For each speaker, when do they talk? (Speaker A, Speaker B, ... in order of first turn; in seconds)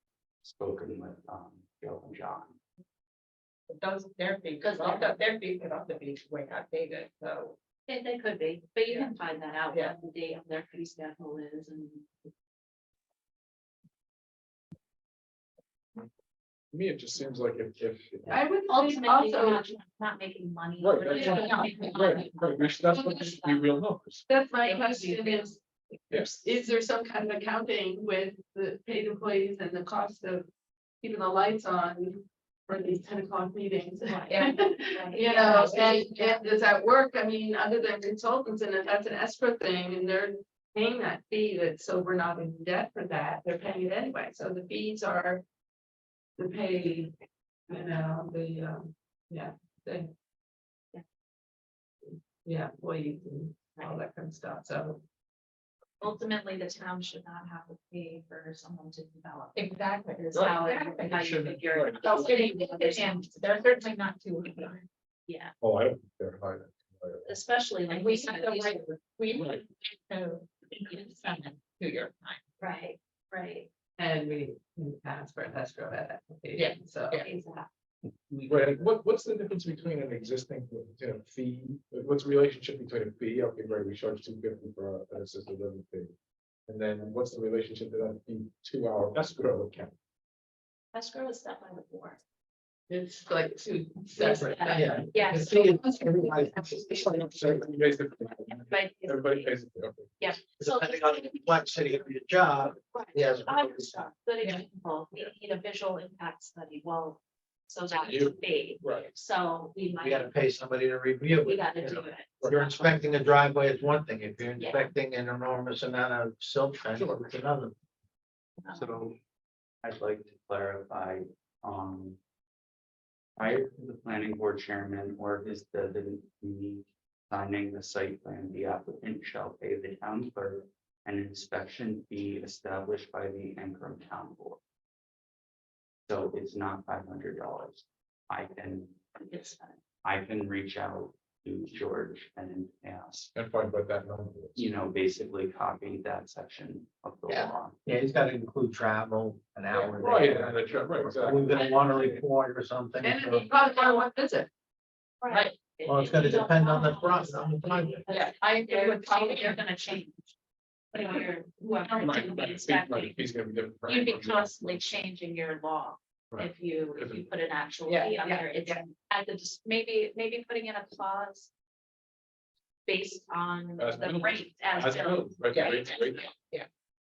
Speaker A: 0.4-2.6, 119.8-122.2, 123.4-134.6, 136.1-143.3, 144.6-147.8
Speaker B: 3.7-7.6, 59.6-61.2, 62.0-64.9, 67.9-72.4, 76.5-77.3, 78.3-78.7, 155.3-155.6, 158.1-159.6, 167.9-168.8, 175.5-176.7
Speaker C: 4.6-5.1, 7.9-12.1, 18.7-23.6, 24.6-25.5, 34.1-36.4, 56.0-63.9, 65.3-65.5, 67.3-68.9, 70.8-71.3, 72.6-73.7, 77.2-77.7, 90.9-92.2, 94.2-95.8, 98.5-99.5, 100.2-101.4, 102.9-110.3, 111.4-112.8, 114.6-114.9, 118.6-119.0, 139.2-139.8, 151.5-152.0, 155.2-160.3, 160.9-163.2, 163.9-171.5, 172.9-175.3
Speaker D: 16.7-18.4, 20.8-24.2, 26.1-26.4, 61.0-62.5, 65.6-67.4, 69.3-69.6, 78.4-86.1, 86.7-89.9, 97.1-100.3, 107.9-109.1, 112.4-112.8, 143.3-144.6, 150.0-152.2, 162.0-164.9, 166.3-167.3, 173.8-176.3
Speaker E: 18.3-19.7, 21.1-21.4, 24.3-25.6, 26.1-30.5, 31.0-45.4, 46.4-47.1, 47.7-50.1, 52.1-55.0, 74.0-77.2, 92.9-97.5, 153.0-154.5
Speaker F: 94.6-97.7, 100.6-103.9, 110.0-117.7, 118.7-119.2, 147.9-153.5, 155.9-158.0